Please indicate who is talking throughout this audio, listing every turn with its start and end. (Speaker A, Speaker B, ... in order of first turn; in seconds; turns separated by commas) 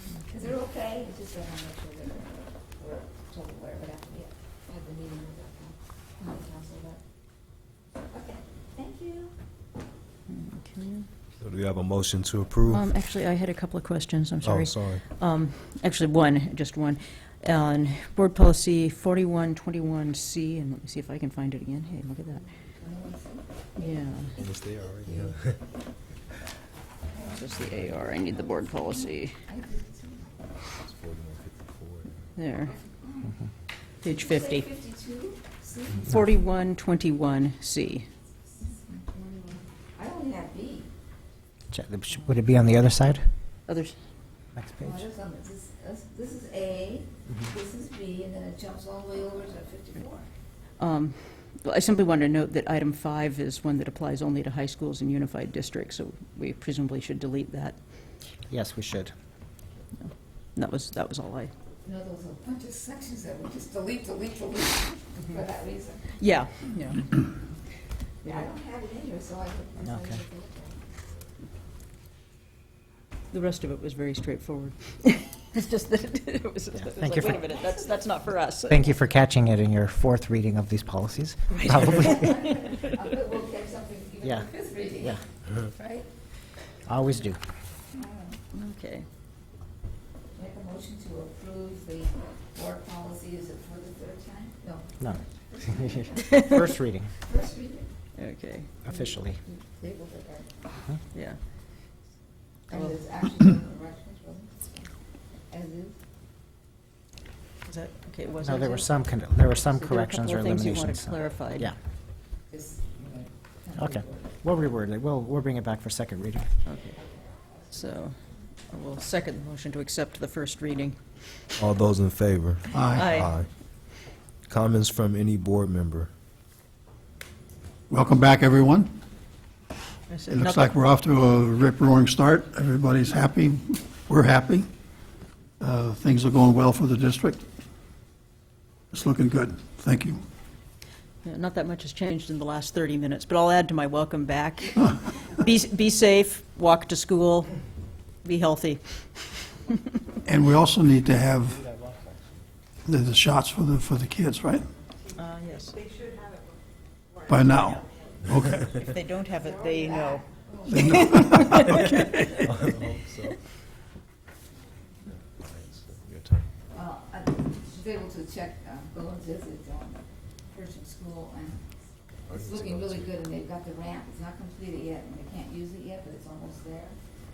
Speaker A: 0.2-7.0, Speaker A: 8.1-9.3, Speaker B: 10.3-11.1, Speaker C: 11.4-12.8, Speaker B: 12.7-22.5, Speaker C: 14.4-15.0, Speaker A: 22.8-23.4, Speaker B: 23.8-24.4, Speaker C: 24.4-25.6, Speaker B: 27.2-29.4, Speaker A: 29.5-30.2, Speaker C: 30.8-32.2, Speaker B: 32.4-32.8, Speaker B: 34.0-34.7, Speaker A: 34.4-36.1, Speaker B: 36.0-38.1, Speaker A: 38.9-40.9, Speaker D: 41.7-43.3, Speaker B: 43.7-44.0, Speaker D: 44.6-45.0, Speaker A: 44.8-50.2, Speaker B: 50.8-57.8, Speaker D: 58.5-59.1, Speaker B: 60.0-61.5, Speaker A: 61.9-66.0, Speaker B: 66.2-67.3, Speaker B: 68.2-68.5, Speaker A: 68.3-70.8, Speaker D: 69.8-70.2, Speaker B: 73.3-78.8, Speaker D: 76.8-77.5, Speaker D: 78.7-82.3, Speaker B: 81.5-82.8, Speaker A: 81.9-85.1, Speaker D: 84.2-84.5, Speaker D: 86.9-87.4, Speaker A: 88.0-88.4, Speaker B: 88.5-89.1, Speaker A: 90.4-94.9, Speaker D: 95.0-97.1, Speaker A: 97.3-97.9, Speaker B: 98.2-98.7, Speaker D: 98.8-99.4, Speaker A: 99.5-100.6, Speaker B: 101.1-101.4, Speaker B: 102.7-103.0, Speaker A: 102.7-104.9, Speaker A: 105.5-105.9, Speaker B: 107.7-108.9, Speaker D: 108.4-111.8, Speaker B: 109.8-111.7, Speaker A: 112.5-114.2, Speaker D: 113.8-116.5, Speaker B: 116.7-117.0, Speaker B: 117.7-118.2, Speaker B: 118.7-121.0, Speaker C: 121.6-123.5, Speaker E: 122.7-123.2, Speaker B: 122.9-123.3, Speaker C: 124.5-126.1, Speaker E: 127.9-128.9, Speaker B: 130.1-130.7, Speaker E: 130.3-134.7, Speaker E: 135.6-137.4, Speaker E: 138.9-140.2, Speaker B: 141.2-147.5, Speaker B: 148.2-149.7, Speaker E: 150.3-151.7, Speaker E: 152.8-154.7, Speaker B: 155.2-155.8, Speaker E: 157.2-158.8, Speaker B: 158.7-162.5, Speaker A: 160.4-161.1, Speaker E: 160.7-161.7, Speaker C: 162.4-163.4, Speaker C: 165.4-166.4, Speaker A: 166.7-171.6, Speaker C: 172.3-173.1, Speaker A: 172.4-177.0